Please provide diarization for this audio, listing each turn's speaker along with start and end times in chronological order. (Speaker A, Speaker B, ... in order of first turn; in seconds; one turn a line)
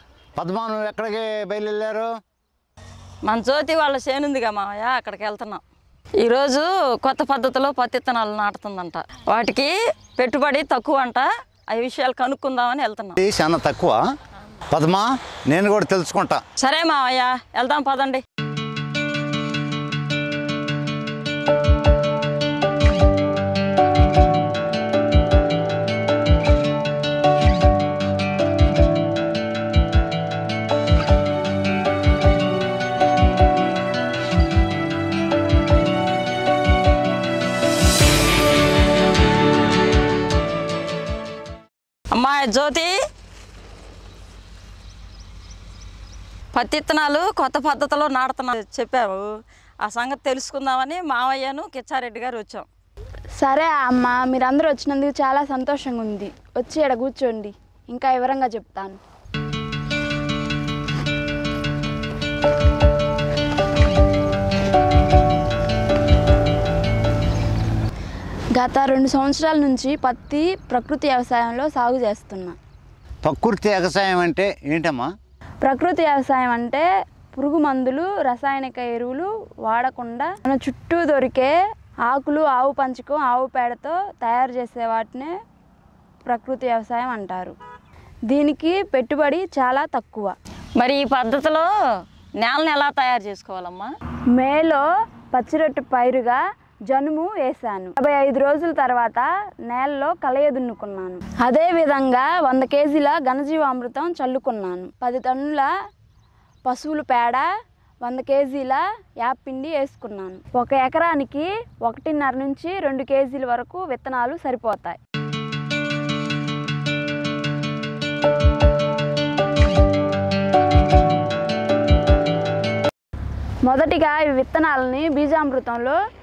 Speaker A: 0.3-2.1
Speaker B: 3.2-5.6
Speaker B: 6.2-13.2
Speaker A: 13.2-14.0
Speaker A: 14.7-16.4
Speaker B: 16.6-18.2
Speaker B: 42.1-42.9
Speaker B: 46.5-49.3
Speaker B: 49.8-52.6
Speaker C: 53.4-59.0
Speaker C: 68.5-72.6
Speaker A: 73.2-75.1
Speaker C: 75.6-81.5
Speaker C: 82.1-85.3
Speaker C: 86.3-87.5
Speaker C: 88.3-90.3
Speaker B: 90.8-91.7
Speaker B: 92.4-93.9
Speaker C: 94.3-105.7
Speaker C: 106.7-107.5
Speaker C: 108.0-115.0
Speaker C: 123.7-126.0